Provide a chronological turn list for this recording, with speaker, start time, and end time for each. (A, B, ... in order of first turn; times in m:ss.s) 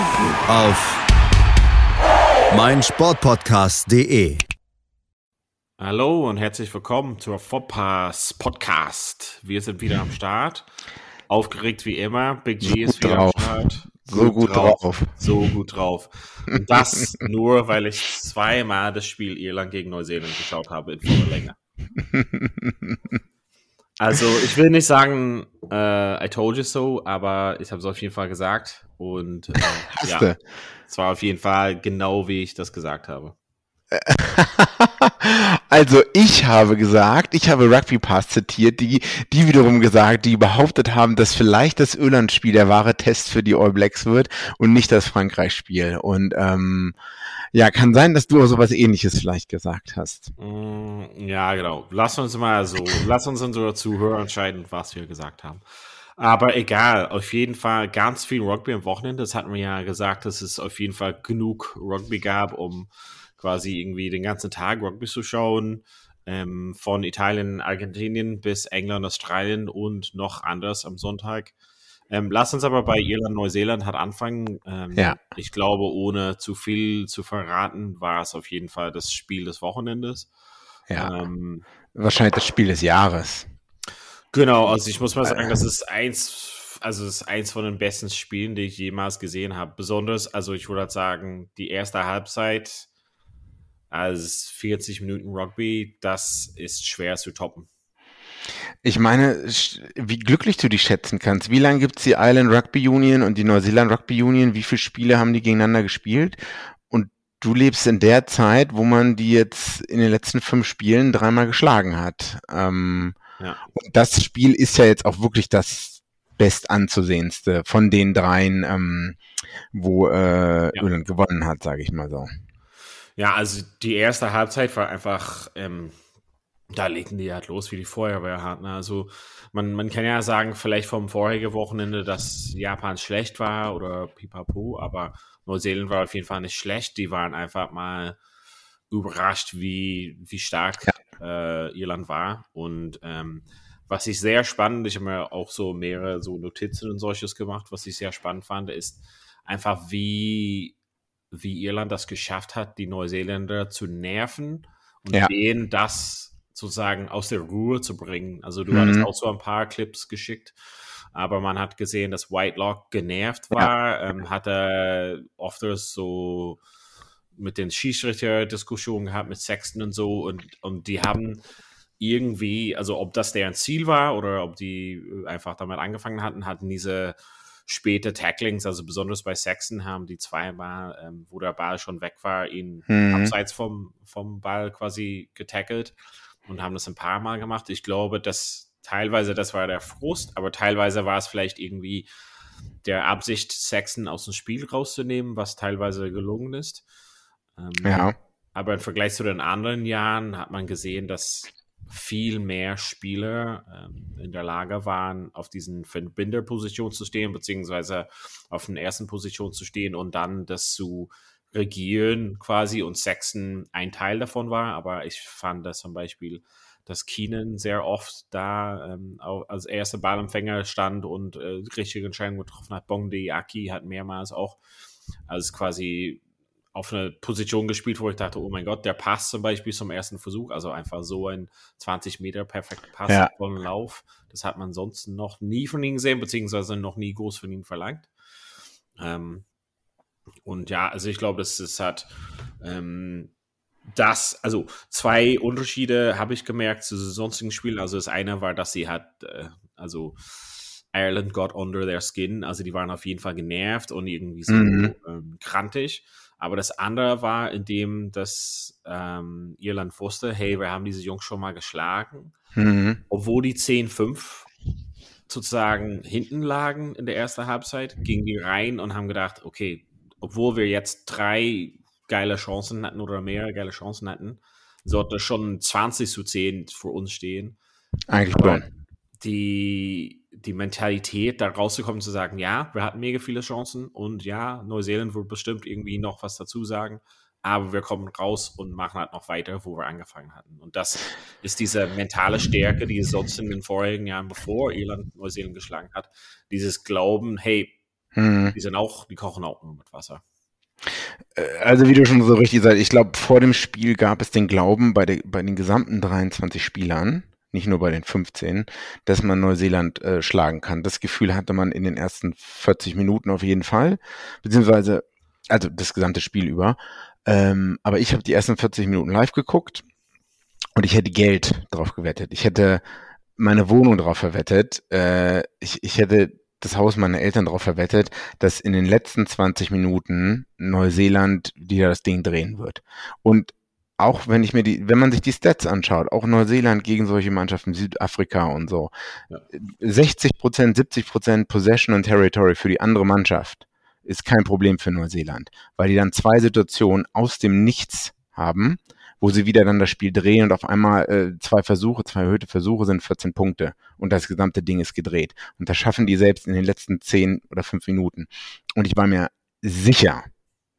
0:00.5-0:01.0 A
0:02.5-0:04.4 A
0:05.8-0:10.7 B
0:11.3-0:21.6 B
0:12.6-0:15.1 C
0:22.0-0:23.0 C
0:24.0-0:30.3 B
0:30.0-0:30.4 C
0:30.9-0:33.4 B
0:33.9-0:47.0 C
0:47.5-0:50.3 C
0:50.4-0:55.6 B
0:56.2-1:11.5 B
1:12.1-1:20.3 B
1:21.0-1:21.7 B
1:21.9-1:23.5 C
1:24.3-1:32.9 B
1:24.7-1:25.6 C
1:33.9-1:37.7 B
1:38.8-1:53.2 C
1:53.4-1:53.7 B
1:53.8-1:59.2 C
1:59.7-2:02.3 C
2:03.2-2:06.0 B
2:06.7-2:18.2 B
2:18.9-2:30.8 B
2:31.3-2:40.6 B
2:38.7-2:39.1 C
2:41.1-2:46.6 B
2:47.4-2:51.4 B
2:52.0-2:57.2 B
2:57.7-3:06.0 B
3:02.9-3:03.3 C
3:06.5-3:12.1 B
3:12.8-3:16.8 B
3:17.6-3:44.6 B
3:17.8-3:18.2 C
3:45.3-3:46.2 B
3:46.7-3:58.1 B
3:59.0-3:59.4 B
4:00.4-4:02.1 B
4:02.6-4:03.3 B
4:03.9-4:22.4 B
4:14.5-4:14.9 C
4:22.6-4:23.0 C
4:23.1-4:24.5 B
4:25.3-4:37.6 B
4:38.1-4:38.7 C
4:38.3-4:38.7 B
4:39.2-4:57.7 B
4:58.2-4:58.6 C
4:58.5-5:00.2 B
5:01.4-5:19.8 C
5:20.8-5:22.8 C
5:23.4-5:38.9 C
5:39.5-6:00.3 C